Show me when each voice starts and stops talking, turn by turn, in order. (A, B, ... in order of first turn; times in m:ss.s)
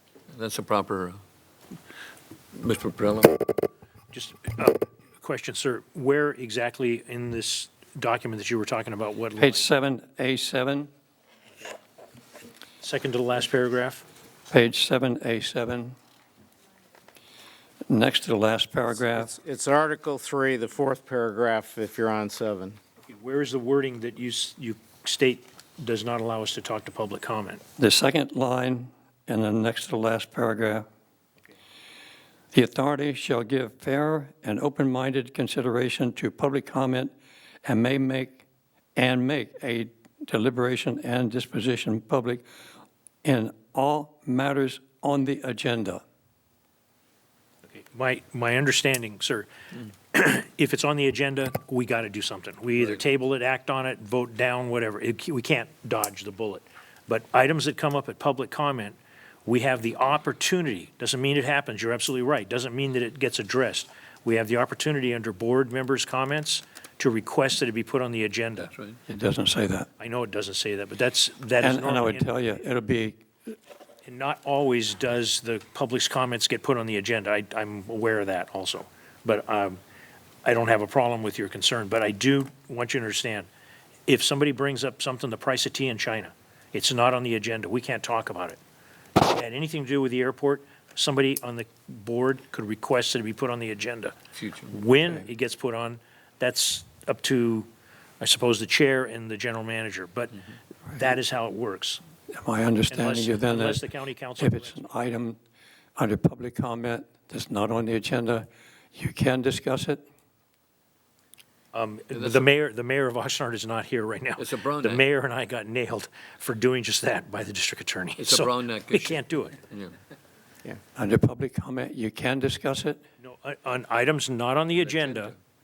0:00.3-0:01.2 A
0:02.6-0:03.6 A
0:04.1-0:09.7 B
0:09.4-0:10.9 C
0:12.8-0:14.0 B
0:14.5-0:16.0 C
0:17.9-0:19.3 C
0:18.9-0:22.8 D
0:23.1-0:27.6 B
0:27.8-0:30.8 C
0:32.5-0:37.1 C
0:37.6-0:38.4 C
0:39.0-0:42.4 C
0:43.2-0:46.0 C
0:47.7-0:49.5 B
0:50.1-1:08.7 B
1:08.6-1:09.0 A
1:09.1-1:09.9 C
1:10.0-1:12.3 B
1:11.6-1:13.2 C
1:14.0-1:19.8 B
1:20.4-1:23.5 B
1:24.1-1:28.6 B
1:29.2-1:34.2 B
1:34.4-1:34.8 A
1:34.7-1:37.7 B
1:38.2-1:42.0 B
1:42.3-1:45.4 C
1:42.9-1:44.9 B
1:46.0-1:50.0 C
1:51.7-1:59.6 B
1:52.1-1:52.5 A
1:54.4-1:55.0 A
1:58.2-1:59.9 A
2:01.0-2:03.0 C
2:03.2-2:05.4 B
2:04.8-2:05.3 A